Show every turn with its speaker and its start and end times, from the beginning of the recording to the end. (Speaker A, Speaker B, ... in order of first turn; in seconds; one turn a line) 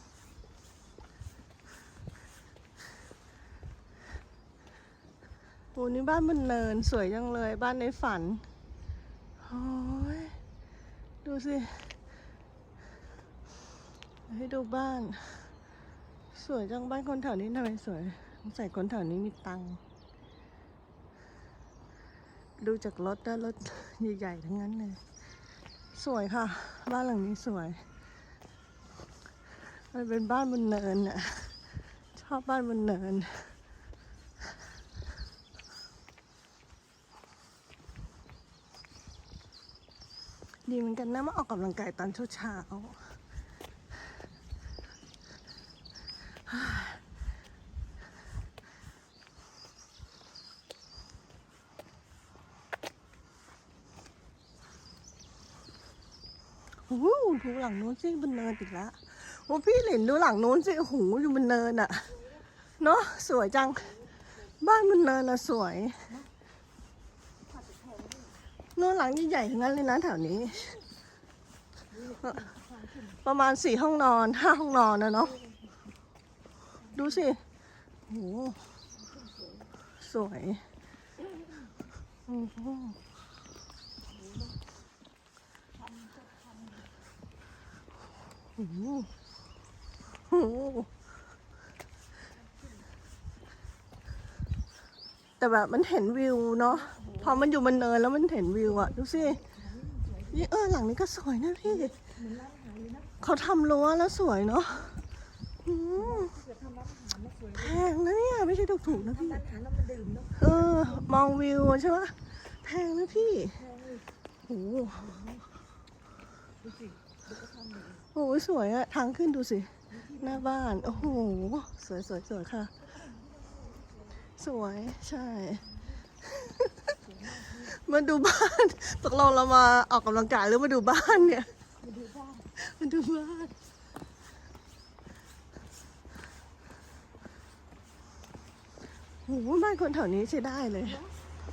Speaker A: 5.7-8.4
Speaker A: 9.4-10.4
Speaker A: 11.2-11.9
Speaker A: 14.3-15.5
Speaker A: 16.3-19.8
Speaker A: 22.6-25.0
Speaker A: 25.9-27.8
Speaker A: 29.9-31.6
Speaker A: 32.1-33.5
Speaker A: 40.7-43.1
Speaker A: 46.5-47.0
Speaker A: 56.8-62.1
Speaker A: 62.8-64.0
Speaker A: 64.6-66.0
Speaker B: 67.5-68.3
Speaker A: 68.8-70.8
Speaker B: 71.9-73.1
Speaker A: 73.2-75.4
Speaker A: 76.9-77.4
Speaker A: 78.1-78.6
Speaker B: 79.2-79.7
Speaker A: 80.0-80.6
Speaker A: 82.3-83.0
Speaker B: 85.9-86.7
Speaker A: 88.5-89.1
Speaker A: 90.3-90.9
Speaker A: 95.4-99.4
Speaker B: 96.7-97.4
Speaker B: 98.6-100.3
Speaker A: 100.3-101.9
Speaker B: 101.7-103.1
Speaker A: 103.2-105.0
Speaker A: 105.6-106.3
Speaker B: 105.9-107.8
Speaker A: 107.5-109.4
Speaker B: 108.9-111.0
Speaker A: 110.3-113.6
Speaker B: 113.5-114.1
Speaker A: 114.5-115.1
Speaker B: 116.6-118.0
Speaker A: 118.1-122.7
Speaker B: 120.0-121.1
Speaker A: 124.4-125.7
Speaker A: 126.2-126.9
Speaker B: 127.0-127.7
Speaker A: 127.5-131.5
Speaker B: 131.8-132.5
Speaker A: 132.6-133.5
Speaker A: 139.2-141.0